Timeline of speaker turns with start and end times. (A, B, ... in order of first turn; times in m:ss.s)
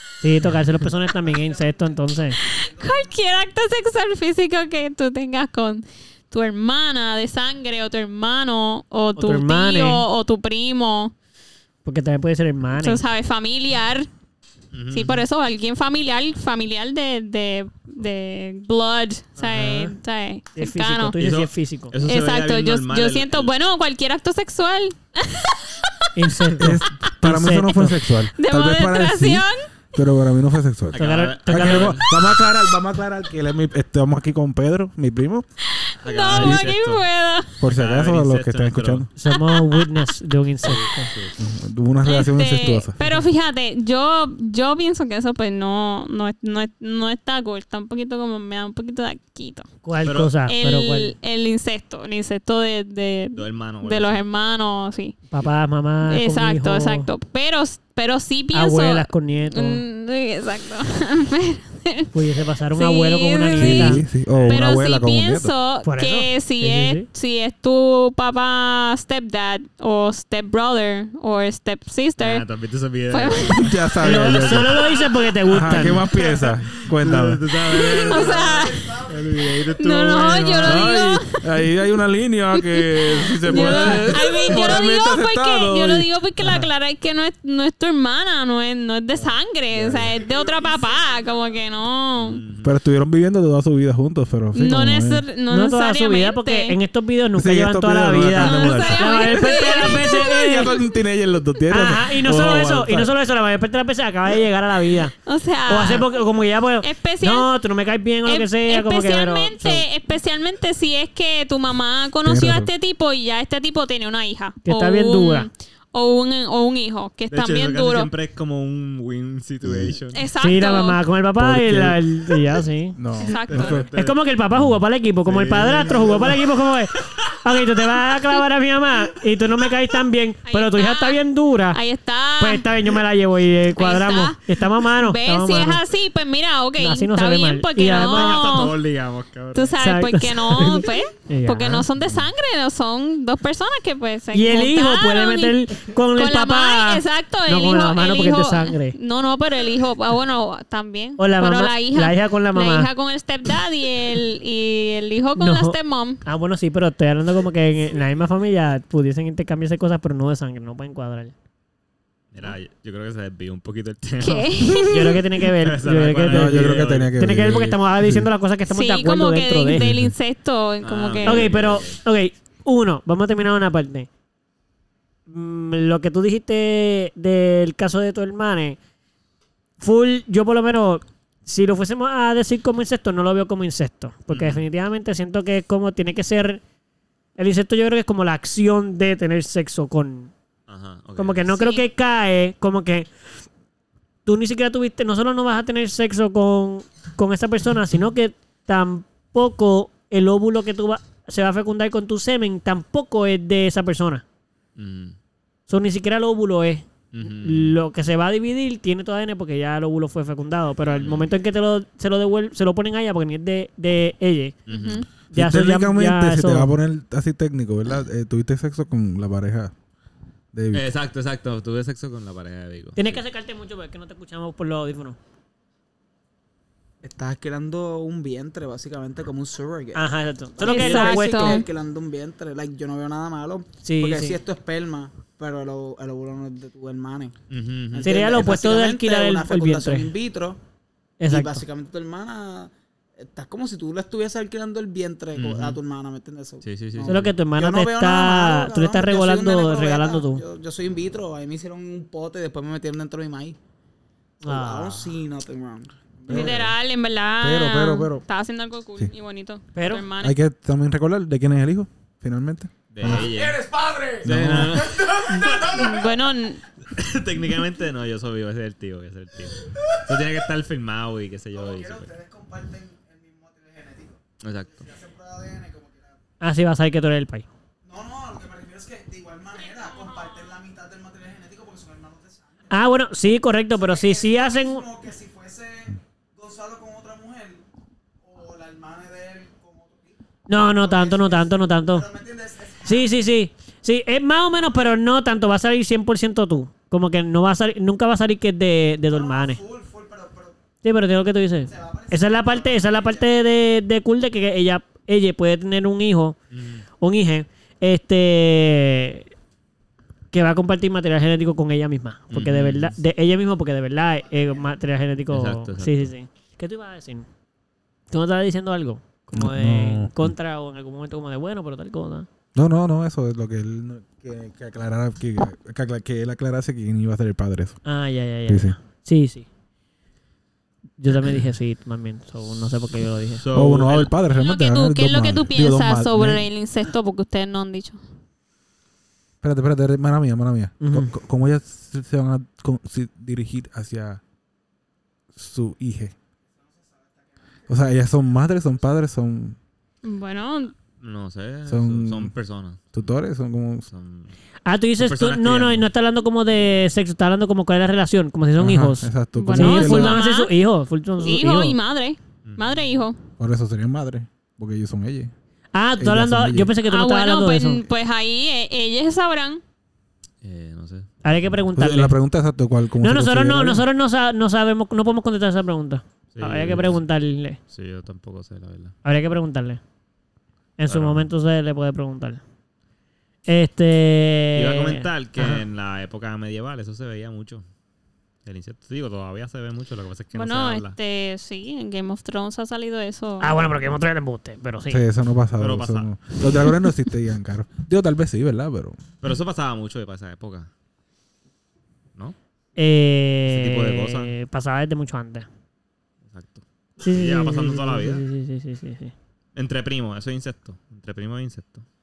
0:00.2-0:02.4 A
0:02.4-0:11.1 B
0:09.2-0:10.0 A
0:11.8-0:13.0 A
0:12.7-0:14.1 B
0:14.7-0:15.2 C
0:14.9-0:21.2 B
0:19.4-0:20.0 A
0:20.6-0:21.9 A
0:21.2-0:23.5 C
0:22.0-0:25.9 B
0:26.1-0:28.0 A
0:26.6-0:35.4 D
0:28.3-0:29.6 B
0:30.9-0:32.3 C
0:31.0-0:32.0 A
0:35.9-0:37.6 B
0:36.0-0:37.0 C
0:36.3-0:36.6 D
0:37.6-0:39.1 D
0:37.7-0:39.1 C
0:39.2-0:41.1 A
0:39.3-0:40.0 B
0:40.6-0:41.4 C
0:41.4-0:43.0 D
0:42.0-0:49.7 B
0:43.0-0:43.3 A
0:49.8-0:51.1 A
0:50.0-0:50.4 C
0:50.4-0:55.2 B
0:53.4-0:54.2 C
0:55.3-0:57.1 A
0:56.0-1:02.1 B
0:58.5-0:59.8 A
1:02.1-1:04.0 A
1:02.7-1:12.4 B
1:03.5-1:05.5 D
1:04.3-1:04.6 C
1:05.8-1:07.1 A
1:12.2-1:14.6 C
1:13.1-1:15.3 B
1:13.5-1:14.8 D
1:14.0-1:16.0 A
1:15.5-1:17.5 D
1:15.6-1:21.1 C
1:16.1-1:16.5 B
1:17.7-1:19.0 B
1:17.8-1:19.3 E
1:19.7-1:21.4 B
1:20.6-1:26.1 D
1:22.5-1:32.4 B
1:23.5-1:24.1 C
1:26.4-1:26.7 A
1:32.2-1:32.7 C
1:32.6-1:35.2 D
1:34.5-1:36.8 B
1:35.5-1:40.8 A
1:37.3-1:43.1 D
1:38.3-1:40.3 B
1:41.7-1:45.1 A
1:45.2-1:46.1 B
1:45.7-1:49.8 A
1:46.8-1:47.5 B
1:48.2-1:58.1 B
1:52.2-1:52.7 D
1:54.6-1:55.5 A
1:57.3-2:00.3 C
1:59.6-1:59.9 D
2:00.1-2:01.0 B
2:00.4-2:03.0 A
2:01.4-2:02.0 D
2:03.0-2:03.8 D
2:03.2-2:04.6 C
2:03.2-2:03.8 B
2:03.8-2:11.8 A
2:05.2-2:07.4 C
2:10.4-2:11.2 B
2:11.7-2:12.7 B
2:12.4-2:15.8 A
2:13.7-2:18.8 B
2:16.8-2:18.5 A
2:17.8-2:19.8 C
2:19.5-2:25.6 B
2:19.8-2:21.9 A
2:21.9-2:22.3 C
2:24.3-2:29.0 A
2:26.1-2:36.2 B
2:31.2-2:32.9 A
2:35.4-2:41.3 A
2:42.3-2:44.9 C
2:44.2-2:45.2 B
2:44.8-2:49.9 A
2:45.6-2:47.5 C
2:46.3-2:48.3 D
2:48.7-2:51.5 B
2:49.8-2:50.1 D
2:50.8-2:52.0 C
2:51.2-2:54.1 A
2:55.3-2:58.8 A
2:59.8-3:06.6 A
3:04.3-3:04.6 C
3:07.4-3:10.3 A
3:10.7-3:11.5 C
3:11.2-3:13.1 A
3:11.6-3:11.8 B
3:14.2-3:24.2 A
3:24.8-3:25.2 C
3:25.7-3:34.6 A
3:27.1-3:27.8 C
3:30.9-3:31.3 C
3:34.7-3:35.0 C
3:34.7-3:35.1 B
3:35.3-3:36.7 A
3:35.3-3:39.7 D
3:40.5-3:40.9 D
3:40.7-3:43.2 C
3:43.0-3:45.2 A
3:47.0-3:57.3 E
3:49.9-3:51.6 A
3:50.6-3:51.7 B
3:53.8-3:54.4 A
3:57.5-3:58.5 C
3:57.9-4:00.6 E
3:58.0-4:00.1 A
4:01.2-4:01.6 A
4:01.3-4:13.6 E
4:05.3-4:05.8 C
4:06.6-4:07.3 C
4:07.1-4:10.4 A
4:14.4-4:16.6 E
4:14.4-4:15.1 A
4:16.3-4:16.7 D
4:16.3-4:20.3 B
4:17.4-4:18.2 D
4:19.7-4:20.0 A
4:20.2-4:23.3 D
4:22.9-4:23.6 C
4:23.0-4:24.2 E
4:24.2-4:24.9 D
4:24.2-4:25.9 C
4:24.8-4:26.0 E
4:25.5-4:26.6 B
4:26.9-4:32.1 C
4:31.5-4:36.2 E
4:34.4-4:34.8 C
4:36.4-4:37.5 A
4:37.8-4:42.7 E
4:39.8-4:40.4 B
4:42.7-4:44.8 A
4:43.8-4:47.6 E
4:48.2-4:50.2 E
4:50.5-4:52.1 A
4:50.7-4:53.1 E
4:52.8-4:59.6 A
4:59.1-5:00.6 E
5:00.8-5:06.4 A
5:01.7-5:03.2 E
5:06.5-5:06.8 C
5:07.0-5:09.3 A
5:10.3-5:17.2 A
5:12.3-5:13.0 C
5:15.3-5:16.1 C
5:18.1-5:22.3 A
5:19.3-5:20.3 D
5:22.5-5:27.8 D
5:27.8-5:29.5 A
5:28.5-5:28.8 D
5:31.0-5:33.5 A
5:32.7-5:34.1 C
5:33.5-5:36.5 D
5:34.3-5:38.0 B
5:39.4-5:44.2 D
5:40.8-5:41.1 A
5:45.3-5:46.1 D
5:47.7-5:49.6 D
5:50.0-5:50.7 B
5:51.0-5:53.1 C
5:51.6-5:52.3 D
5:52.9-5:53.9 D
5:53.9-5:54.4 C
5:54.6-6:01.8 A
5:55.0-5:55.9 C
5:58.6-6:00.2 D
5:59.4-6:00.5 B
6:01.2-6:03.2 B
6:02.4-6:02.8 C
6:03.4-6:05.3 D
6:05.7-6:07.9 A
6:06.0-6:06.7 D
6:06.8-6:09.6 B
6:10.4-6:11.6 C
6:11.2-6:12.2 A
6:11.7-6:13.9 D
6:13.0-6:17.6 A
6:16.3-6:17.0 C
6:17.7-6:18.9 C
6:19.0-6:19.8 A
6:20.8-6:22.4 A
6:20.9-6:21.3 C
6:23.5-6:25.6 A
6:24.5-6:27.6 C
6:28.4-6:31.0 C
6:30.3-6:33.6 B
6:33.4-6:35.0 A
6:34.9-6:39.0 D
6:35.6-6:36.3 C
6:36.4-6:36.7 A
6:39.2-6:40.7 C
6:42.8-6:45.5 A
6:43.5-6:44.3 C
6:46.3-6:48.2 C
6:47.0-6:49.1 A
6:49.5-6:51.8 C